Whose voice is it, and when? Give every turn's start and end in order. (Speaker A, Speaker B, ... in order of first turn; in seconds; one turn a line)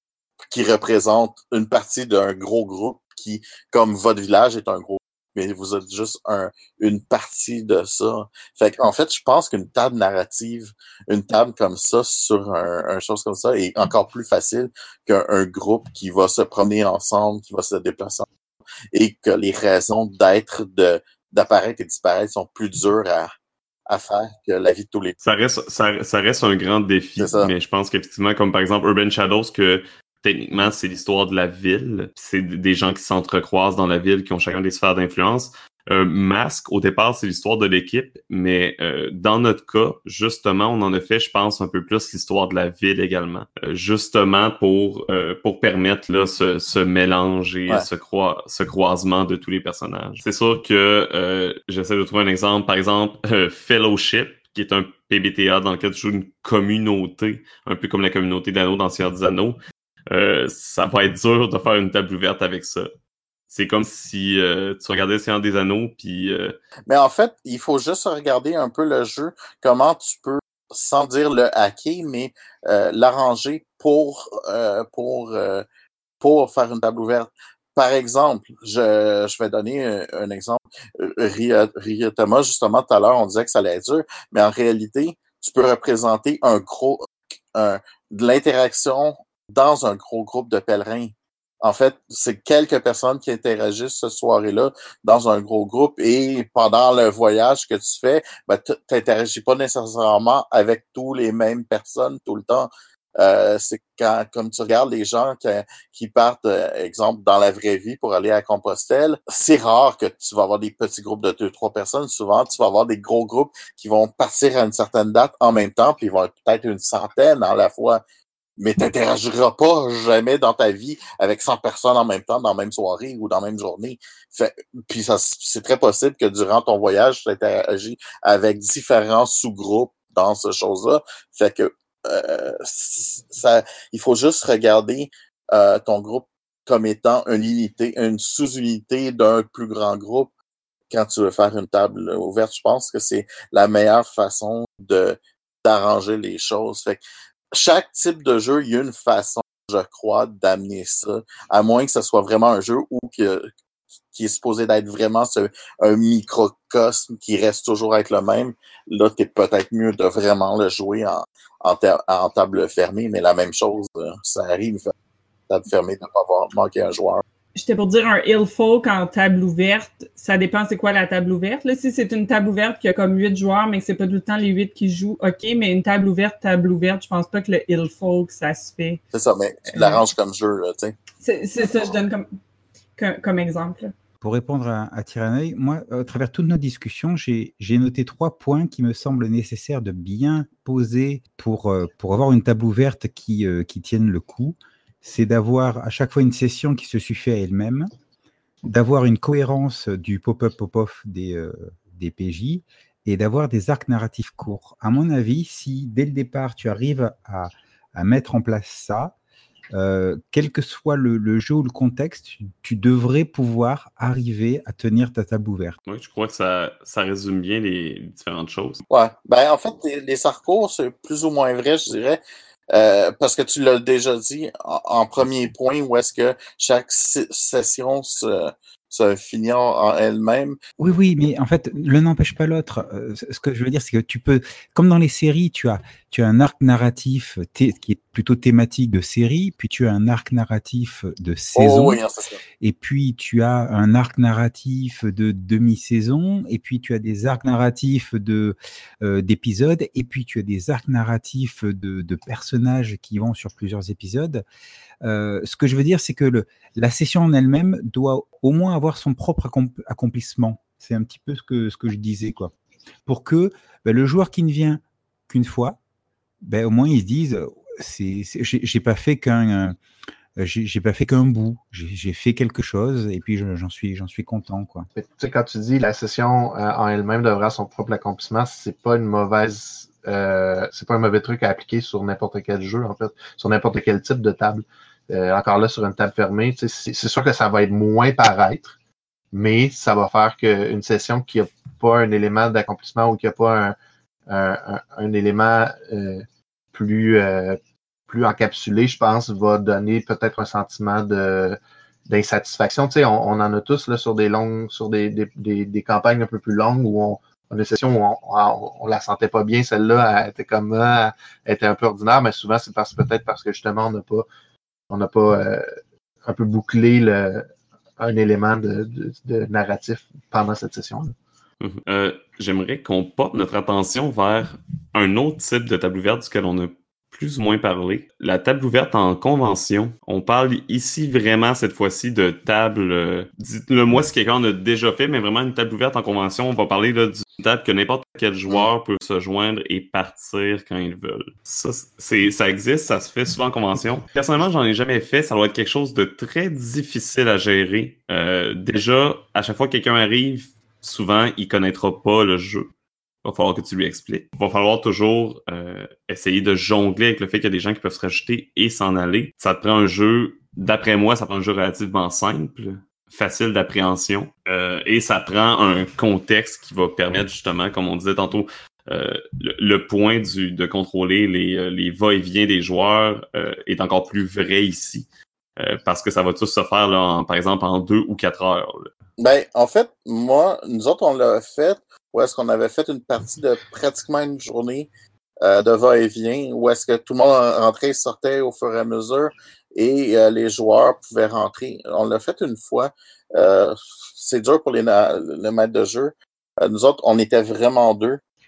Speaker A: 0.5-18.3
Speaker A: 18.9-23.3
Speaker A: 23.9-25.2
Speaker B: 25.2-59.6
Speaker A: 27.2-27.5
Speaker B: 60.1-62.9
Speaker B: 63.5-66.6
Speaker A: 66.9-75.6
Speaker A: 76.2-118.0
Speaker A: 118.6-140.3
Speaker A: 140.9-147.0
Speaker A: 147.5-153.4
Speaker A: 154.1-164.9
Speaker A: 165.5-167.2
Speaker C: 167.6-179.0
Speaker A: 179.1-180.9
Speaker C: 179.7-180.0
Speaker C: 181.2-182.2
Speaker C: 183.0-183.9
Speaker D: 184.2-197.9
Speaker D: 198.6-209.1
Speaker D: 209.7-215.8
Speaker B: 215.8-218.8
Speaker A: 218.9-222.2
Speaker A: 222.7-230.6
Speaker D: 230.8-242.0
Speaker A: 241.6-242.4
Speaker D: 242.6-254.4
Speaker D: 255.0-262.5
Speaker D: 263.1-265.8
Speaker D: 266.4-269.8
Speaker D: 270.4-274.9
Speaker E: 274.9-288.8
Speaker E: 289.3-293.8
Speaker E: 294.3-314.2
Speaker E: 314.9-315.7
Speaker E: 316.2-317.4
Speaker E: 318.0-321.1
Speaker B: 321.6-352.7
Speaker B: 353.2-375.1
Speaker B: 375.6-378.9
Speaker A: 379.2-384.9
Speaker A: 385.4-398.2